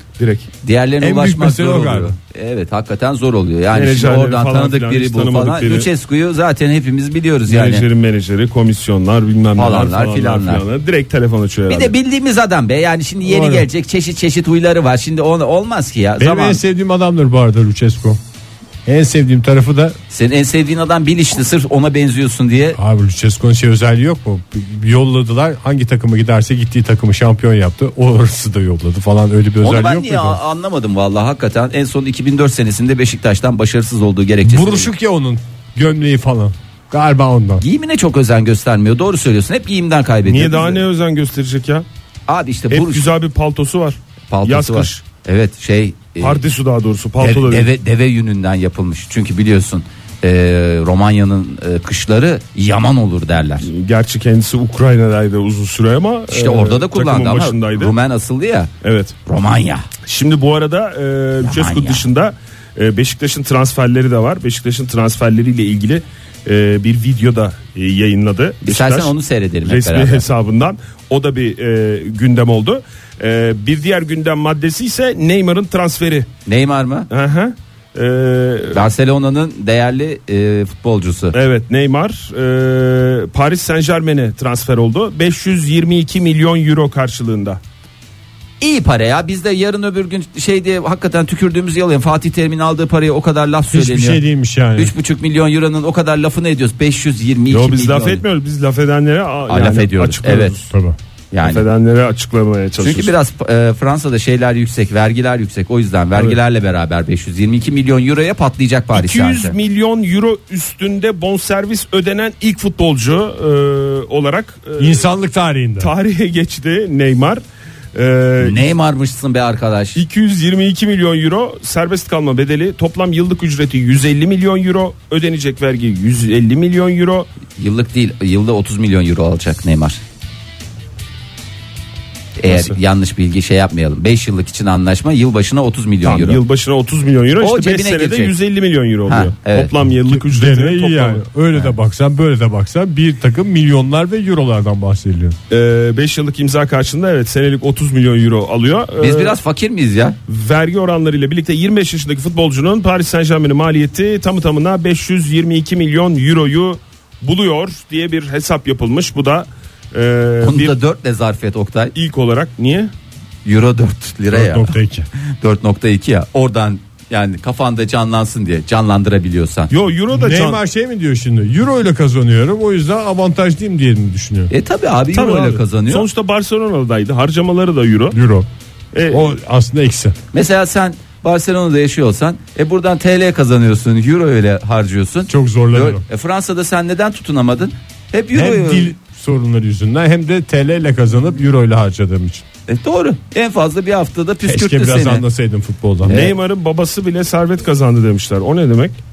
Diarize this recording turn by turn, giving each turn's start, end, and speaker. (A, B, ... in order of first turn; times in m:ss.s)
0:00.2-0:00.5 A
0:00.6-0:07.9 B
0:01.0-0:02.2 C
0:03.7-0:05.9 A
0:07.5-0:11.9 A
0:09.6-0:10.6 B
0:11.7-0:16.6 B
0:13.2-0:13.7 C
0:16.2-0:18.2 C
0:18.9-0:20.0 C
0:20.1-0:22.8 B
0:22.8-0:30.4 C
0:29.6-0:34.9 B
0:34.4-0:37.6 C
0:37.6-0:40.8 B
0:40.3-0:41.8 A
0:42.3-0:43.1 B
0:42.7-0:45.0 A
0:44.3-0:46.4 B
0:46.2-0:47.7 A
0:47.2-0:53.7 B
0:53.6-0:58.0 A
0:56.3-0:58.7 B
0:58.8-0:59.2 A
0:59.3-0:59.9 B
1:00.1-1:09.1 A
1:01.4-1:02.1 B
1:08.6-1:10.2 B
1:09.6-1:16.3 A
1:16.5-1:17.1 B
1:17.1-1:18.8 A
1:18.7-1:21.4 B
1:21.3-1:27.6 A
1:28.6-1:34.2 B
1:33.7-1:34.9 C
1:34.8-1:38.2 B
1:37.5-1:40.7 A
1:39.5-1:40.6 B
1:40.7-1:41.0 C
1:41.3-1:41.7 B
1:41.4-1:43.1 A
1:42.8-1:49.6 B
1:46.1-1:46.4 A
1:48.9-1:55.1 A
1:54.8-1:55.9 C
1:55.8-1:57.4 A
1:57.9-1:58.7 A
1:58.4-2:00.0 B
2:00.0-2:07.3 A
2:07.6-2:10.0 B
2:12.4-2:16.4 B
2:12.5-2:12.8 A
2:16.0-2:21.2 A
2:17.4-2:18.3 B
2:19.1-2:19.7 B
2:20.1-2:25.4 C
2:25.5-2:29.4 A
2:29.0-2:30.2 B
2:30.3-2:40.8 A
2:40.4-2:41.9 B
2:42.0-2:42.9 A
2:43.4-2:49.7 B
2:44.3-2:45.1 C
2:49.7-2:50.6 A
2:50.1-2:54.5 C
2:54.5-2:56.1 B
2:55.1-2:58.2 A
2:58.1-2:58.5 C
2:58.9-2:59.3 A
2:59.1-3:00.2 C
3:00.3-3:08.9 B
3:05.3-3:06.0 C
3:08.3-3:12.4 C
3:12.7-3:15.2 B
3:14.4-3:16.2 C
3:16.0-3:16.4 B
3:16.1-3:19.0 A